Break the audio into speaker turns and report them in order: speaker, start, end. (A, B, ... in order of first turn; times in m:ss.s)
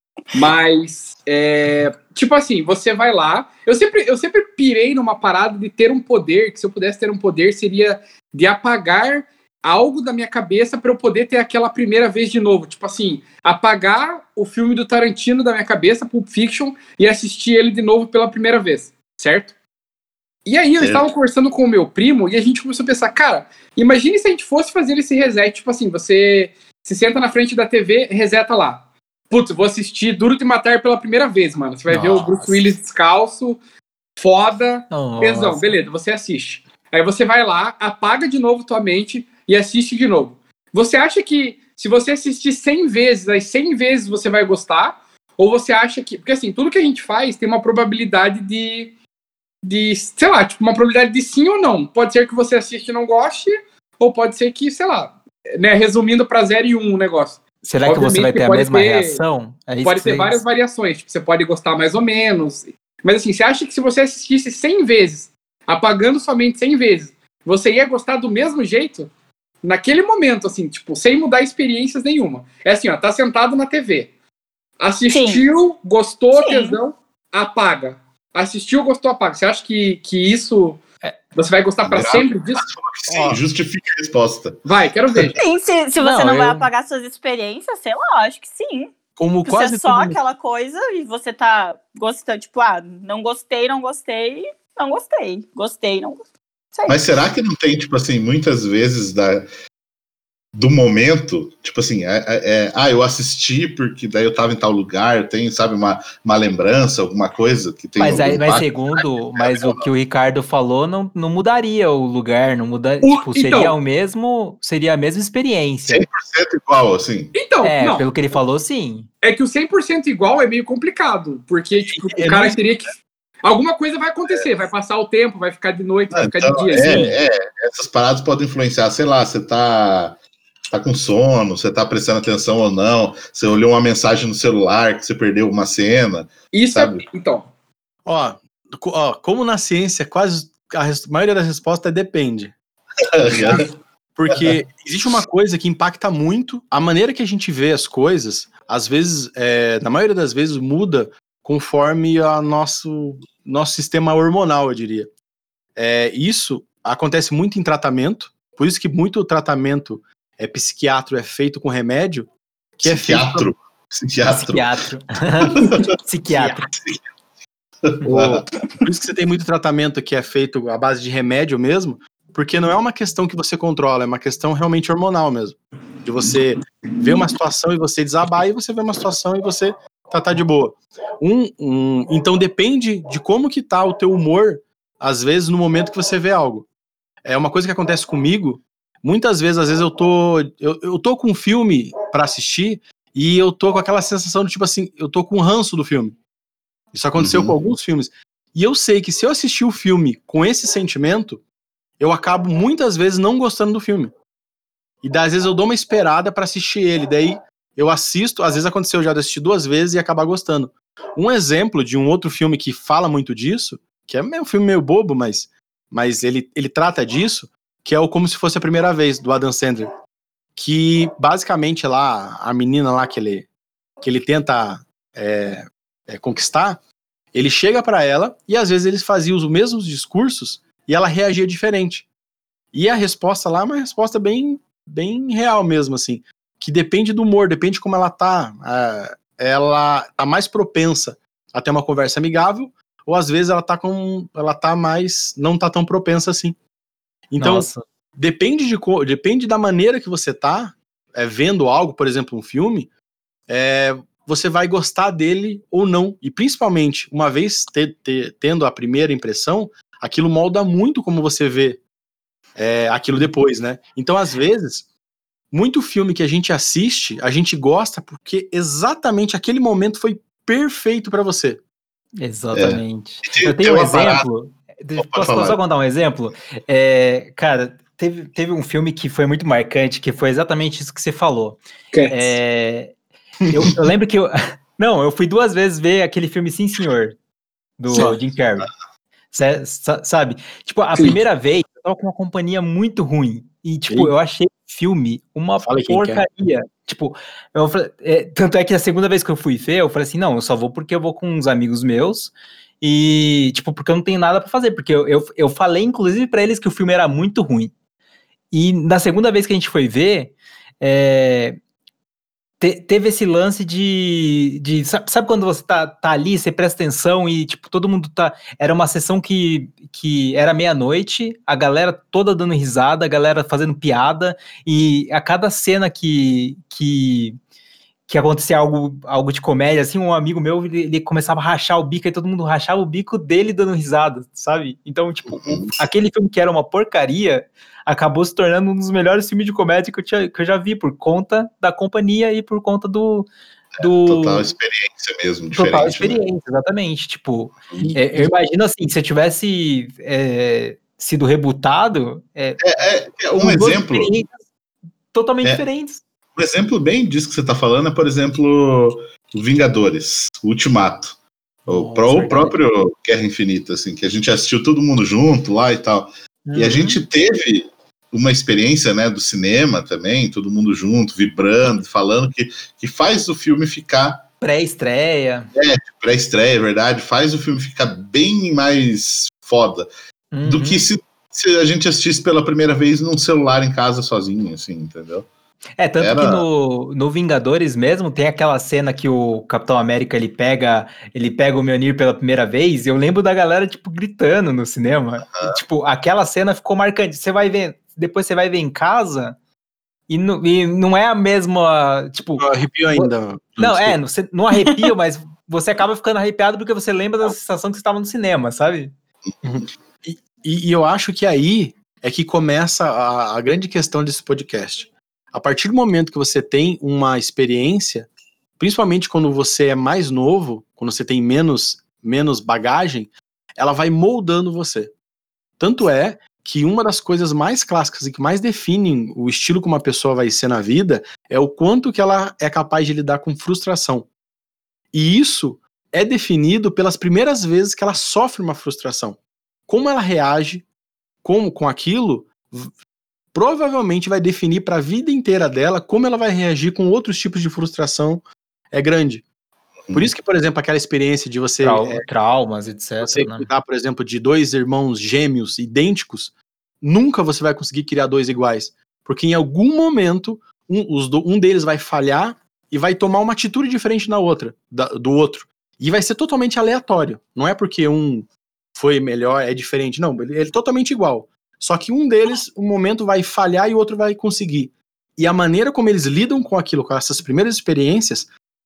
0:00.3-0:19.5 A
0:20.4-0:33.6 A
0:31.9-0:32.6 B
0:34.2-0:48.9 A
0:34.9-0:35.7 B
0:49.6-0:59.2 A
0:57.6-1:00.4 B
0:59.8-1:09.1 A
1:09.6-1:14.1 A
1:14.8-1:20.8 A
1:15.1-1:15.4 C
1:16.4-1:16.8 C
1:21.3-1:22.6 A
1:21.8-1:24.6 D
1:23.1-1:23.4 E
1:24.6-1:25.4 A
1:25.4-1:28.9 C
1:26.0-1:26.7 B
1:29.2-1:30.2 E
1:29.4-1:36.2 C
1:36.7-1:37.1 C
1:36.9-1:39.5 D
1:40.5-1:49.9 D
1:48.0-1:56.1 B
1:53.0-1:53.8 A
1:55.9-1:57.3 D
1:57.3-1:58.1 A
1:57.6-1:59.1 B
1:59.2-2:07.0 A
2:01.9-2:02.6 E
2:06.1-2:10.2 D
2:06.8-2:07.2 B
2:10.7-2:17.0 D
2:16.5-2:17.5 A
2:18.0-2:22.5 E
2:23.1-2:23.7 D
2:23.2-2:35.1 E
2:35.8-2:43.5 E
2:42.8-2:44.7 D
2:44.2-2:46.6 B
2:45.4-2:45.9 D
2:46.4-2:46.6 E
2:46.7-2:47.0 D
2:47.9-2:48.4 D
2:48.0-3:06.7 E
3:07.2-3:16.2 E
3:16.9-3:21.4 E
3:17.2-3:17.5 D
3:22.0-3:24.1 E
3:25.0-3:39.9 E
3:40.6-3:43.5 E
3:44.0-3:46.8 E
3:47.3-3:52.1 E
3:52.7-4:06.6 E
4:07.3-4:12.9 E
4:07.4-4:07.8 B
4:13.5-4:21.8 E
4:22.6-4:24.8 E
4:25.5-4:31.6 E
4:32.2-4:42.9 B
4:32.5-4:34.3 D
4:35.0-4:35.6 D
4:41.9-4:42.3 A
4:43.5-4:47.2 B
4:47.8-4:48.7 B
4:47.9-4:48.2 E
4:49.3-5:07.7 B
4:55.6-4:56.2 E
5:08.5-5:11.6 B
5:12.6-5:27.4 B
5:28.1-5:43.3 B
5:35.3-5:35.8 D
5:43.8-5:44.5 B
5:43.8-5:46.2 D
5:45.5-5:52.6 B
5:52.6-5:54.1 D
5:53.3-5:54.4 B
5:55.1-5:56.0 B
5:56.4-6:14.2 D
6:01.7-6:02.6 B
6:06.4-6:07.0 B
6:14.4-6:15.5 B
6:15.6-6:19.9 D
6:20.3-6:20.8 B
6:20.4-6:25.3 D
6:25.8-6:39.4 B
6:26.0-6:26.4 D
6:40.1-6:48.9 B
6:42.4-6:44.0 E
6:49.4-7:04.9 E
7:05.6-7:14.1 E
7:14.9-7:20.6 E
7:21.2-7:22.7 E
7:23.3-7:29.2 E
7:29.9-7:32.0 E
7:31.6-7:33.5 B
7:33.0-7:58.3 E